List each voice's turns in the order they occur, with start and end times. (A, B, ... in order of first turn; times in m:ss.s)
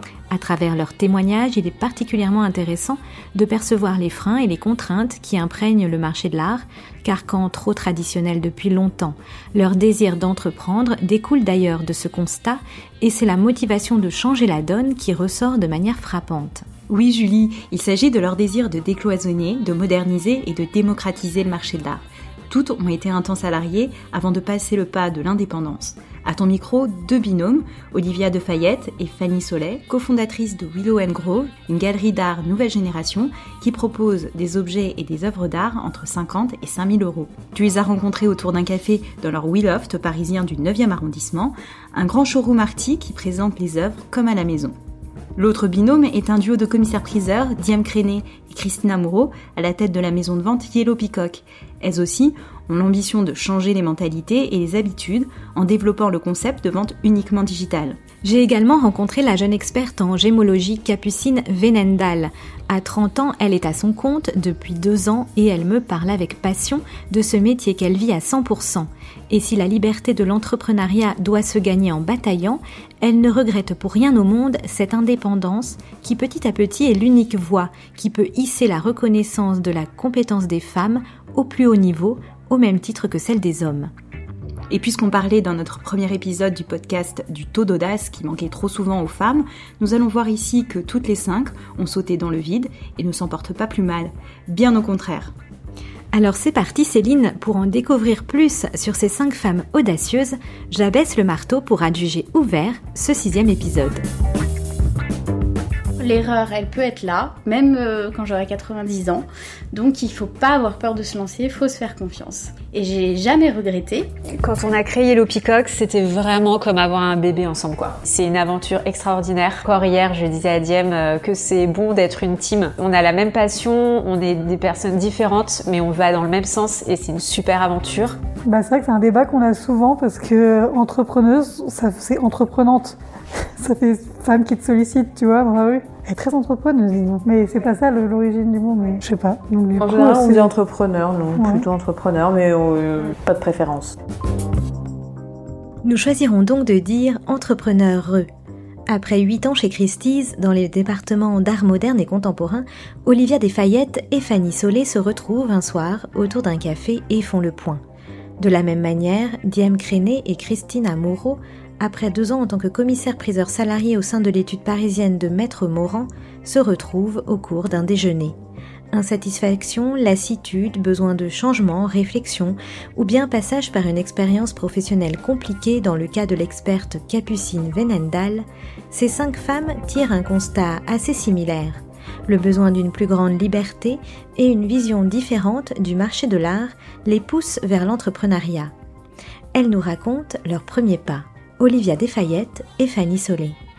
0:00.3-0:16.7 A
0:16.9-0:44.8 B
0:45.4-0:58.0 B
0:58.2-1:23.9 A
1:24.7-1:35.3 B
1:36.1-1:44.0 A
1:46.0-1:54.1 C
1:54.4-2:08.2 D
2:08.5-2:13.0 E
2:13.6-2:20.5 E
2:19.8-2:24.0 F
2:21.4-2:21.6 E
2:25.8-2:28.3 A
2:28.9-2:37.8 A
2:38.4-2:48.4 A
2:48.9-3:08.7 A
3:09.5-3:13.6 A